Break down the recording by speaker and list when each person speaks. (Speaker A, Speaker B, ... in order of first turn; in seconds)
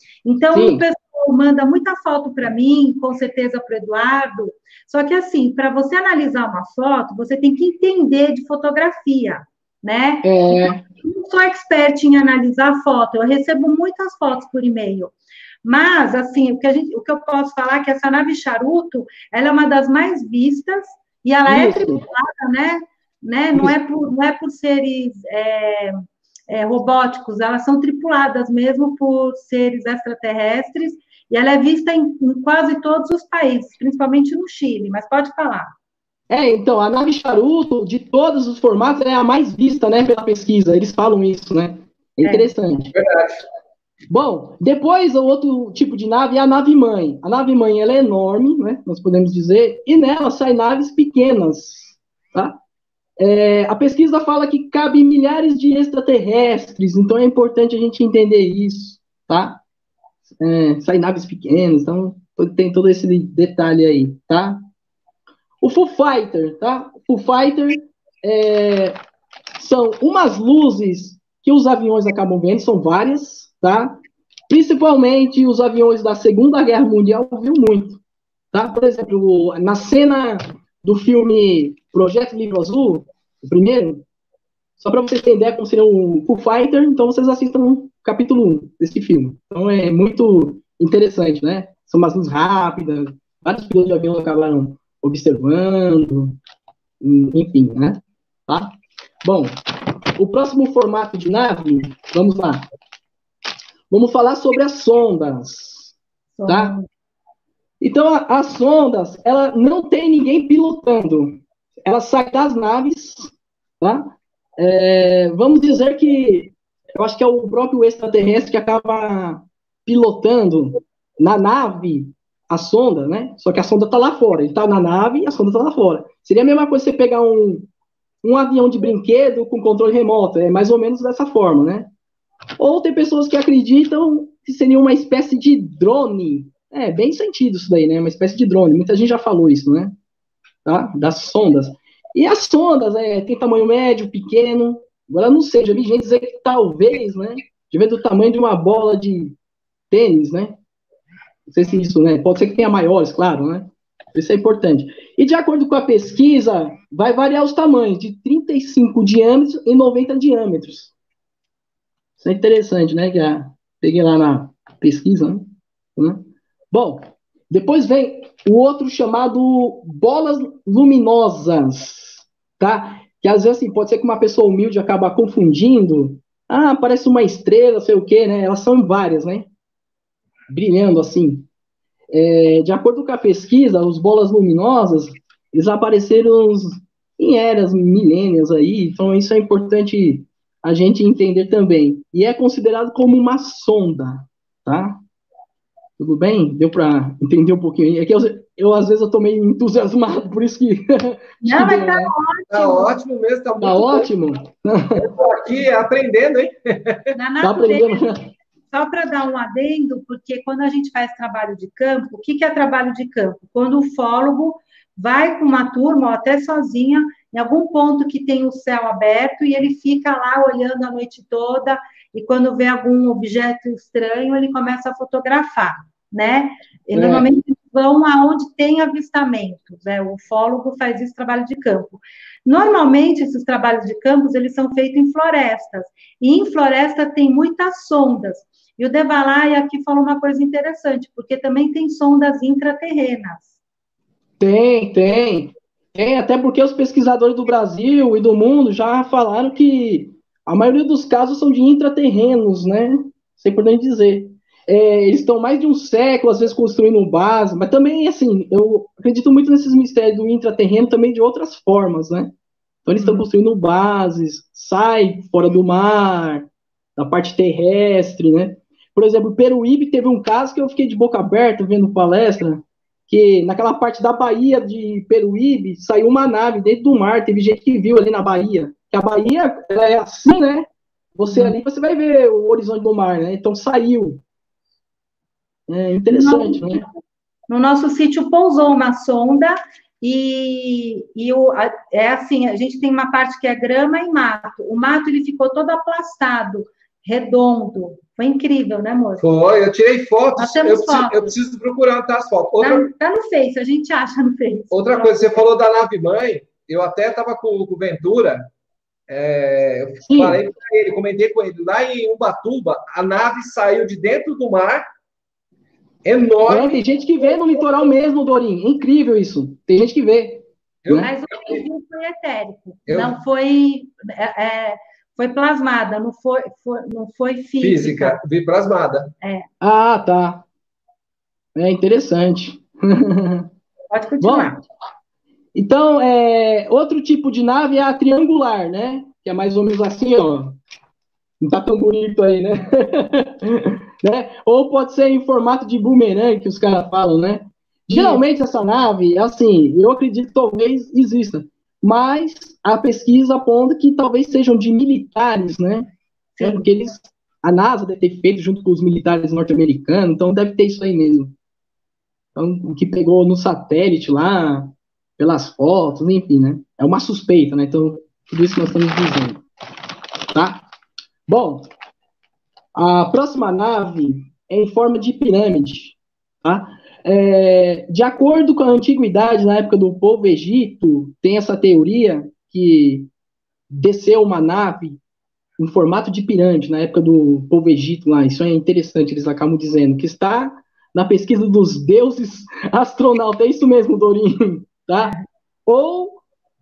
Speaker A: 0.2-35.7, 42.2-42.5, 106.3-106.9, 201.4-202.9, 207.1-208.1, 208.7-243.6, 263.0-263.2, 286.1-286.9, 287.5-299.2, 300.4-301.3, 302.6-305.3, 320.9-328.2, 333.9-334.6, 347.9-348.2, 356.4-356.7
Speaker B: 0.5-0.8, 10.2-10.8, 21.5-22.0, 36.3-42.9, 44.1-52.6, 53.2-59.6, 60.4-64.6, 65.6-69.0, 69.6-74.0, 74.5-78.0, 78.5-84.0, 84.8-96.3, 97.0-99.5, 100.2-102.6, 103.9-105.9, 106.5-106.7, 107.8-127.7, 128.2-131.9, 132.6-139.9, 140.6-149.3, 149.9-150.6, 151.5-160.9, 162.2-179.5, 180.5-181.5, 182.1-195.0, 196.0-202.1, 203.6-205.1, 207.4-208.3, 226.9-227.2, 244.4-262.3, 262.9-284.2, 285.7-286.8, 310.0-310.4, 316.4-321.1, 329.6-330.4, 331.5-333.5, 334.2-334.5, 335.5-340.6, 341.4-361.3, 362.3-369.4, 370.3-370.6, 371.3-371.7, 372.7-383.1, 383.7-385.0, 385.6-395.1, 395.7-396.2
Speaker C: 42.9-43.4, 202.5-204.1, 204.9-207.1, 299.2-302.9, 304.7-308.5, 309.1-314.8, 316.0-316.8, 320.8-321.6, 322.9-323.1, 327.6-329.1